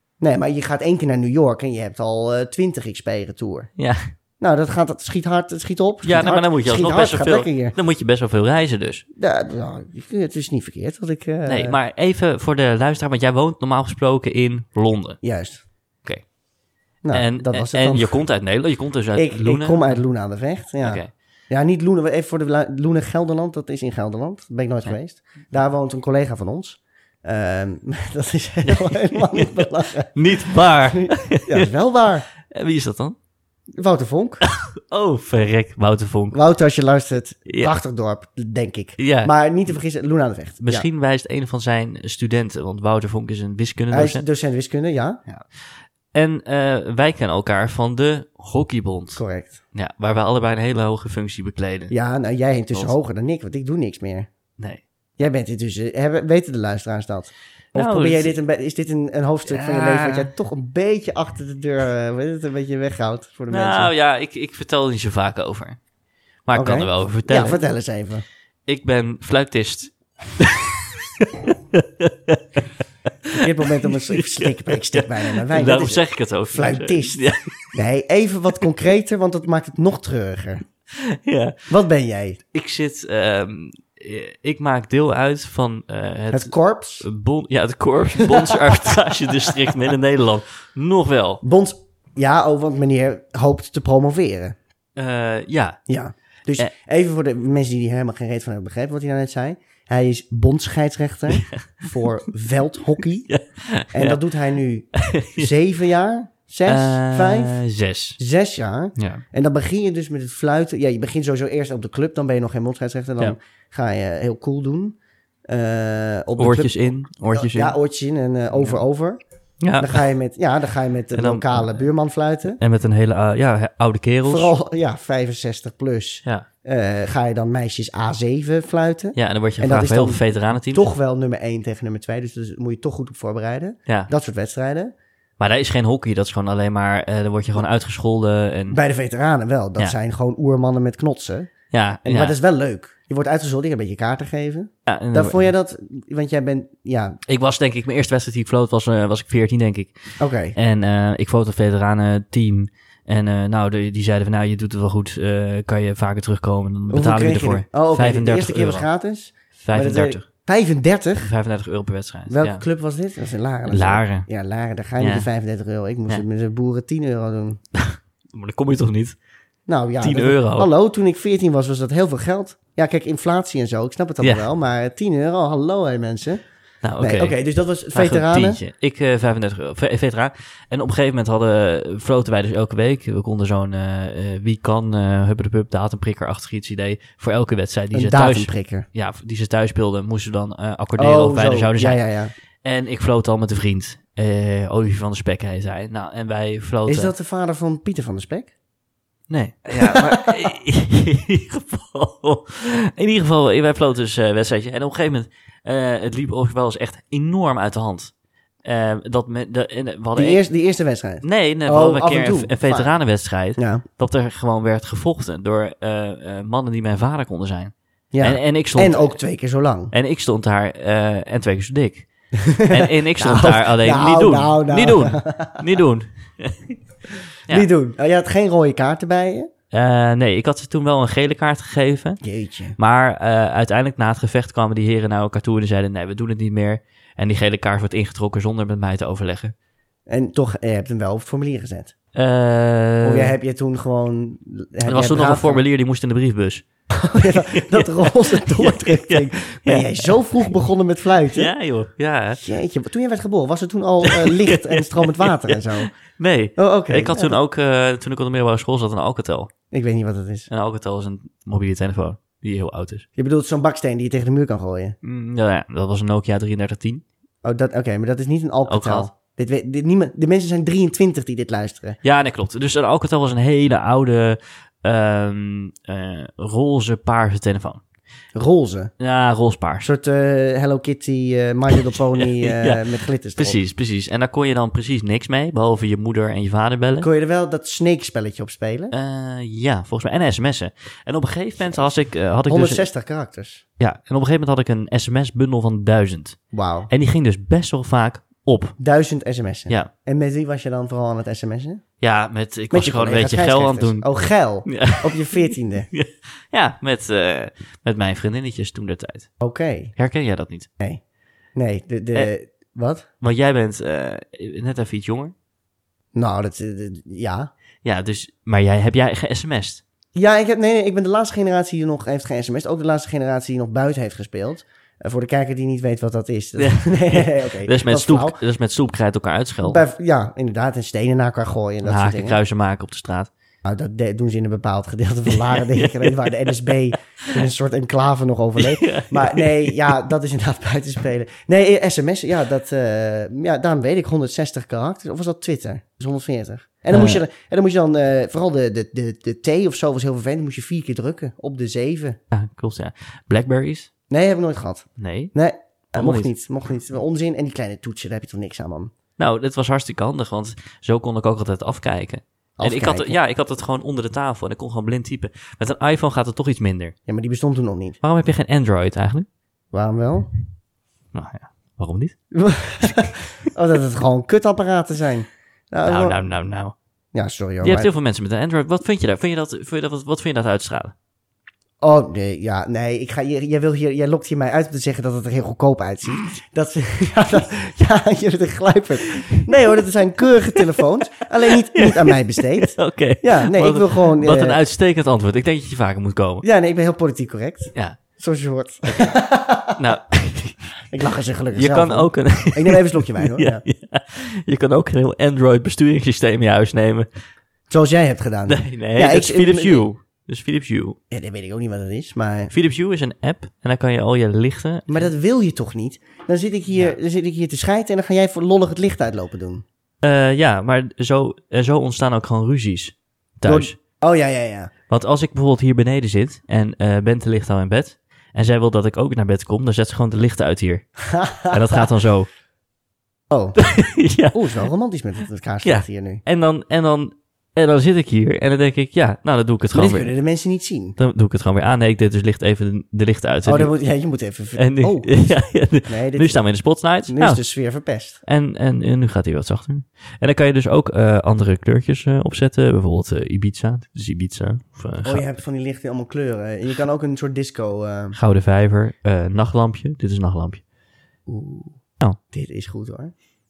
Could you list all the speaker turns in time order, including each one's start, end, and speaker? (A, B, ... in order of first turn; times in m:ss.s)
0:00.2-0:03.7 A
0:03.8-0:04.1 B
0:04.4-0:07.8 A
0:06.0-0:09.0 B
0:09.2-0:11.8 A
0:11.4-0:15.2 B
0:15.2-0:15.6 A
0:17.0-0:18.2 A
0:17.1-0:20.0 B
0:19.1-0:32.2 A
0:20.8-0:21.1 B
0:28.6-0:31.7 B
0:32.4-0:33.2 B
0:33.7-0:34.4 A
0:34.4-0:36.4 B
0:36.3-0:40.9 A
0:37.5-0:37.7 B
0:39.0-0:39.3 B
0:40.6-0:44.2 B
0:43.9-0:45.2 A
0:46.1-0:49.2 B
0:49.2-0:49.6 A
0:49.7-0:51.9 B
0:51.9-0:54.3 A
0:55.2-1:03.9 A
0:57.7-0:58.3 B
0:59.4-1:00.3 B
1:03.5-1:05.8 B
1:06.4-1:07.6 B
1:06.5-1:08.2 A
1:08.7-1:12.6 B
1:13.2-1:17.7 B
1:13.3-1:20.6 A
1:21.0-1:21.6 B
1:21.7-1:22.4 A
1:22.5-1:31.4 B
1:26.3-1:27.0 A
1:28.2-1:29.0 A
1:31.4-1:34.6 A
1:35.0-1:35.8 B
1:35.9-1:43.3 A
1:41.3-1:41.9 B
1:43.3-1:44.2 B
1:43.9-1:47.6 A
1:44.9-1:45.5 B
1:46.6-1:48.2 B
1:48.2-1:56.8 A
1:49.0-1:49.2 B
1:56.4-1:57.8 B
1:57.3-1:59.2 A
1:59.6-2:00.0 B
1:59.8-2:02.6 A
2:01.1-2:01.8 B
2:02.6-2:04.5 B
2:04.2-2:14.9 A
2:09.1-2:10.9 B
2:15.4-2:18.8 B
2:18.7-2:21.5 A
2:21.7-2:22.4 B
2:22.0-2:27.2 A
2:24.8-2:25.5 B
2:27.3-2:30.0 B
2:30.2-2:30.6 A
2:30.5-2:38.9 B
2:36.9-2:41.3 A
2:39.6-2:40.2 B
2:41.2-2:42.6 B
2:42.3-2:47.6 A
2:43.7-2:44.3 B
2:45.0-2:45.3 B
2:47.7-2:49.2 B
2:49.7-2:56.4 A
2:50.0-2:50.7 B
2:56.8-2:57.4 B
2:57.0-2:58.6 A
2:57.9-3:12.0 B
3:07.9-3:08.9 A
3:11.0-3:12.3 A
3:12.6-3:17.1 B
3:16.9-3:18.5 A
3:19.3-3:28.1 B
3:19.8-3:20.5 A
3:28.6-3:30.4 B
3:30.2-3:32.9 A
3:31.2-3:39.2 B
3:33.6-3:33.8 A
3:38.1-3:39.9 A
3:39.9-3:42.1 B
3:42.3-3:45.6 A
3:42.6-3:46.8 B
3:47.5-3:49.5 A
3:49.7-3:52.2 B
3:52.2-3:52.8 A
3:52.8-3:59.5 B
4:00.1-4:01.9 A
4:02.1-4:03.3 B
4:03.0-4:05.6 A
4:04.8-4:06.6 B
4:06.9-4:11.5 A
4:07.3-4:10.2 B
4:11.3-4:12.4 B
4:12.4-4:15.9 A
4:14.0-4:19.5 B
4:16.6-4:17.4 A
4:19.7-4:20.5 A
4:20.5-4:23.0 B
4:23.2-4:25.0 A
4:25.0-4:27.0 B
4:27.4-4:32.0 A
4:28.7-4:29.1 B
4:32.0-4:37.8 B
4:38.3-4:38.9 A
4:39.0-4:39.9 B
4:39.8-4:43.6 A
4:41.7-4:47.1 B
4:47.0-4:48.9 A
4:48.9-4:52.8 B
4:51.6-4:51.9 A
4:52.4-4:53.6 A
4:53.8-4:58.8 B
4:56.5-4:56.9 A
4:58.8-5:01.8 A
5:02.0-5:04.1 B
5:02.7-5:05.9 A
5:04.6-5:09.3 B
5:09.4-5:09.9 A
5:10.0-5:10.7 B
5:11.5-5:13.0 A
5:13.2-5:15.3 B
5:16.1-5:17.5 A
5:17.8-5:19.8 B
5:20.1-5:28.4 A
5:26.6-5:29.8 B
5:29.6-5:32.4 A
5:31.8-5:33.3 B
5:33.6-5:52.2 A
5:35.3-5:36.5 B
5:38.6-5:39.8 B
5:46.9-5:47.2 B
5:52.3-5:53.9 B
5:54.1-5:58.9 A
5:55.0-5:55.3 B
5:55.9-5:56.3 B
5:59.2-6:06.9 B
6:02.6-6:03.2 A
6:07.1-6:08.0 A
6:08.0-6:09.3 B
6:09.7-6:10.3 A
6:11.1-6:12.2 B
6:12.3-6:16.2 A
6:15.8-6:16.7 B
6:17.1-6:17.9 A
6:17.6-6:20.9 B
6:21.8-6:34.6 A
6:29.1-6:29.5 B
6:31.7-6:36.4 B
6:36.4-6:39.8 A
6:39.7-6:40.6 B
6:40.9-6:43.6 A
6:41.5-6:47.1 B
6:47.7-6:49.8 A
6:48.5-6:51.0 B
6:51.1-6:52.5 A
6:52.5-6:55.1 B
6:54.9-6:59.6 A
7:00.0-7:03.8 B
7:03.4-7:04.7 A
7:04.9-7:12.3 B
7:11.1-7:11.8 A
7:13.3-7:13.6 A
7:13.6-7:14.6 B
7:14.3-7:16.2 A
7:15.6-7:20.1 B
7:19.7-7:21.0 A
7:21.0-7:23.7 B
7:23.4-7:25.3 A
7:24.6-7:27.4 B
7:25.8-7:26.4 A
7:27.1-7:28.2 A
7:28.2-7:35.2 B
7:35.0-7:38.2 A
7:38.1-7:40.6 B
7:41.3-7:41.8 A
7:42.3-7:43.1 A